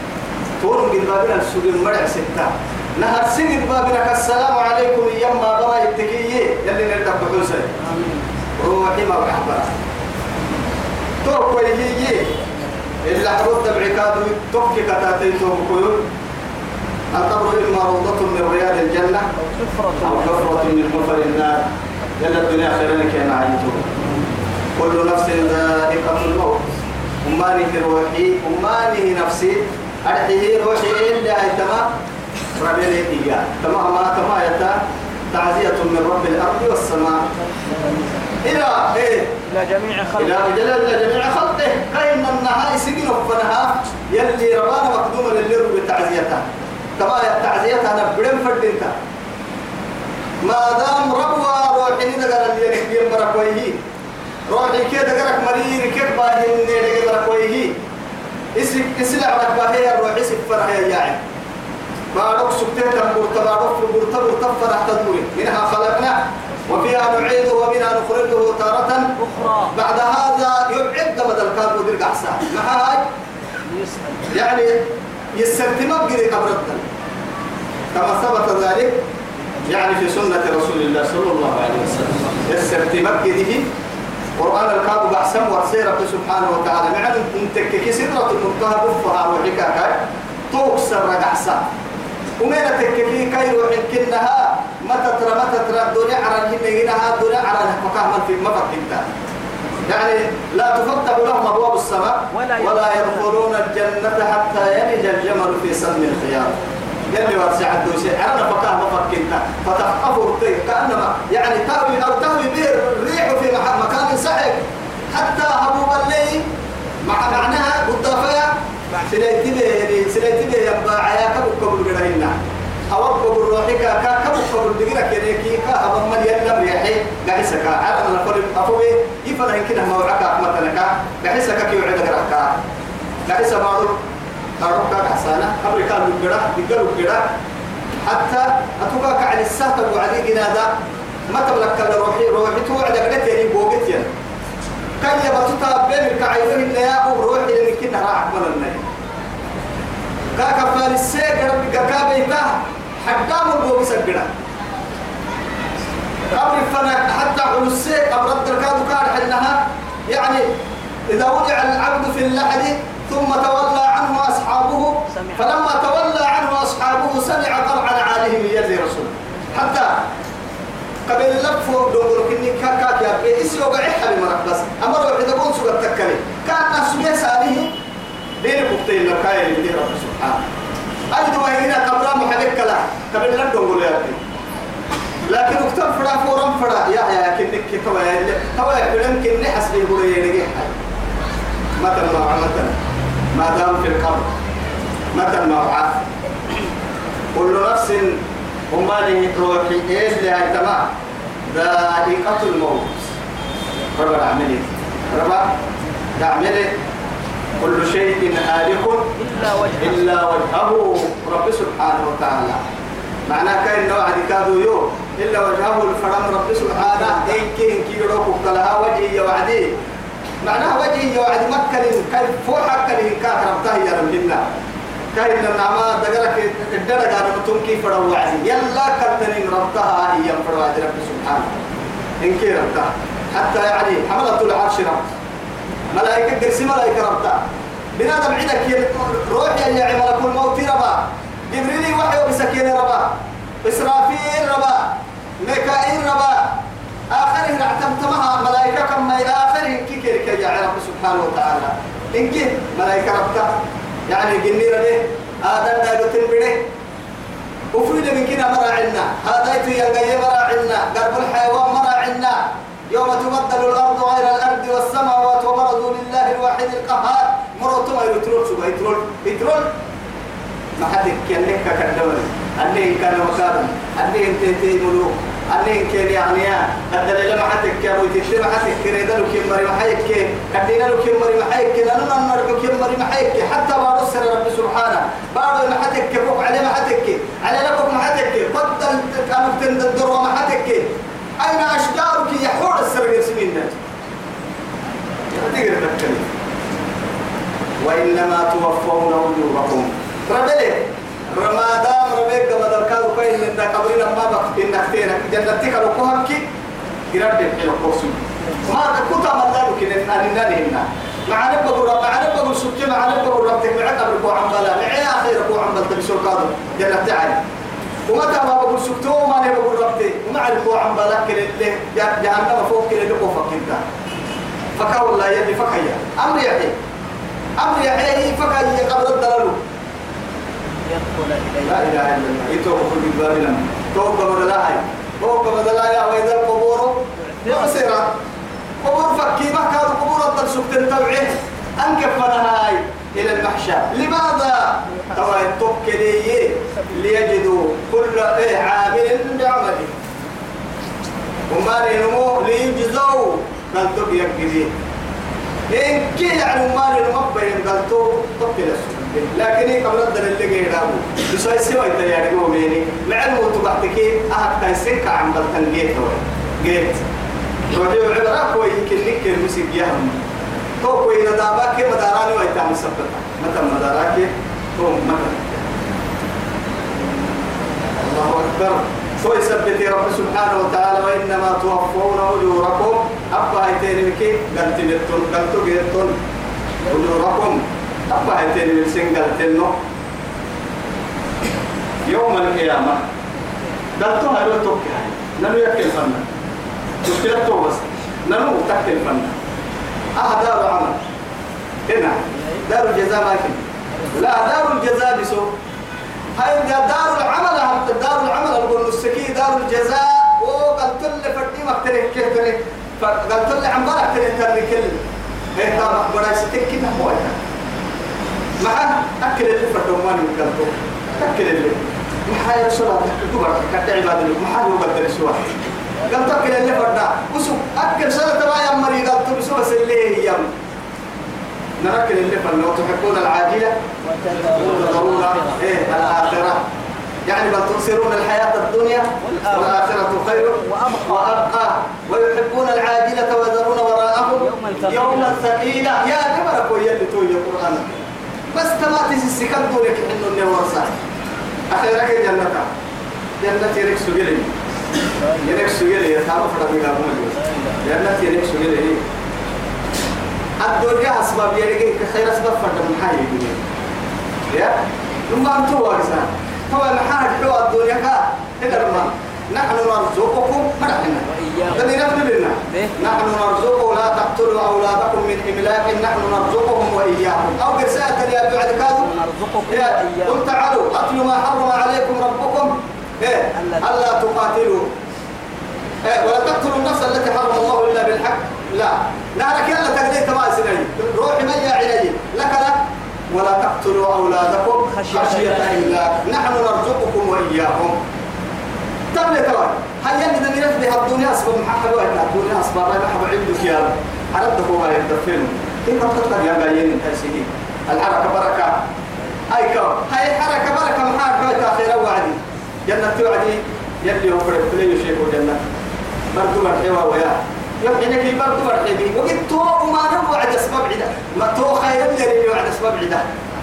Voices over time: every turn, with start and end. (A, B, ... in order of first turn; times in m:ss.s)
0:00.6-0:07.7 A
0:07.8-0:08.3 B
0:08.6-0:09.7 A
0:11.2-0:12.4 A
0:13.0-0:16.0 A
0:17.1-0:19.3 A
0:19.4-0:21.3 B
0:20.0-0:21.6 A
0:22.2-0:23.9 A
0:24.8-0:26.6 A
0:27.2-0:31.9 A
0:32.6-0:34.8 A
0:35.3-0:37.3 A
0:37.5-0:38.4 B
0:38.4-0:39.4 A
0:39.4-0:40.4 B
0:40.1-0:48.9 A
0:50.4-0:53.8 A
0:54.5-0:57.7 A
0:58.6-1:01.2 A
1:02.1-1:09.1 A
1:09.2-1:09.8 B
1:09.7-1:13.0 A
1:13.6-1:14.4 B
1:14.3-1:16.8 A
1:17.9-1:18.9 A
1:19.6-1:23.7 A
1:24.4-1:31.6 A
1:32.4-1:39.1 A
1:39.8-1:46.6 A
1:42.3-1:43.4 B
1:47.1-1:56.4 A
1:57.0-2:02.4 A
2:02.9-2:12.6 A
2:13.2-2:14.0 A
2:14.6-2:17.3 A
2:18.0-2:20.7 A
2:21.3-2:24.1 A
2:25.0-2:28.8 A
2:30.3-2:34.3 A
2:36.3-2:40.4 A
2:41.1-2:50.0 A
2:45.1-2:45.4 B
2:51.1-2:57.7 A
2:58.4-3:00.5 A
3:01.1-3:04.2 A
3:05.3-3:10.8 A
3:11.8-3:12.8 A
3:13.3-3:14.3 A
3:15.1-3:16.0 A
3:17.3-3:20.8 A
3:21.5-3:23.1 A
3:23.9-3:25.5 A
3:26.2-3:26.7 A
3:27.6-3:29.2 A
3:29.2-3:30.0 B
3:29.8-3:32.6 A
3:33.3-3:39.7 A
3:40.4-3:44.4 A
3:45.1-3:51.6 A
3:52.2-3:55.1 A
3:55.9-3:57.4 A
3:58.0-4:06.6 A
4:07.1-4:13.6 A
4:14.1-4:16.6 A
4:17.7-4:29.7 A
4:30.8-4:50.9 A
4:51.4-4:53.8 A
4:55.3-4:56.3 A
4:57.8-5:06.4 A
5:07.1-5:17.4 A
5:18.1-5:23.8 A
5:24.8-5:26.8 A
5:27.6-5:29.6 A
5:30.8-5:32.0 B
5:31.6-5:38.2 A
5:37.3-5:37.8 B
5:38.8-5:50.0 A
5:45.0-5:45.3 B
5:51.5-5:54.7 A
5:55.7-6:07.0 A
6:07.7-6:10.2 A
6:10.8-6:15.7 A
6:18.0-6:26.1 A
6:26.9-6:29.7 A
6:32.0-6:33.0 A
6:34.0-6:36.2 A
6:37.0-6:39.4 A
6:40.2-6:41.0 A
6:41.9-6:45.5 A
6:46.3-6:55.0 A
6:55.5-6:57.4 A
6:58.6-7:10.5 A
7:11.8-7:13.8 A
7:14.0-7:16.1 B
7:14.5-7:16.6 A
7:17.2-7:31.0 A
7:19.2-7:21.5 B
7:24.2-7:25.4 B
7:31.7-7:32.7 A
7:33.4-7:34.5 A
7:35.1-7:35.6 B
7:35.4-7:39.0 A
7:37.4-7:37.8 B
7:40.6-7:43.6 A
7:44.5-7:44.8 A
7:45.3-7:59.1 A
7:51.3-7:51.9 B
7:52.7-7:53.1 B
7:59.0-8:00.4 B
7:59.7-8:04.9 A
8:03.5-8:03.9 B
8:06.0-8:12.8 A
8:13.3-8:18.0 A
8:14.8-8:16.0 B
8:19.1-8:28.8 A
8:29.5-8:35.6 A
8:36.3-8:43.2 A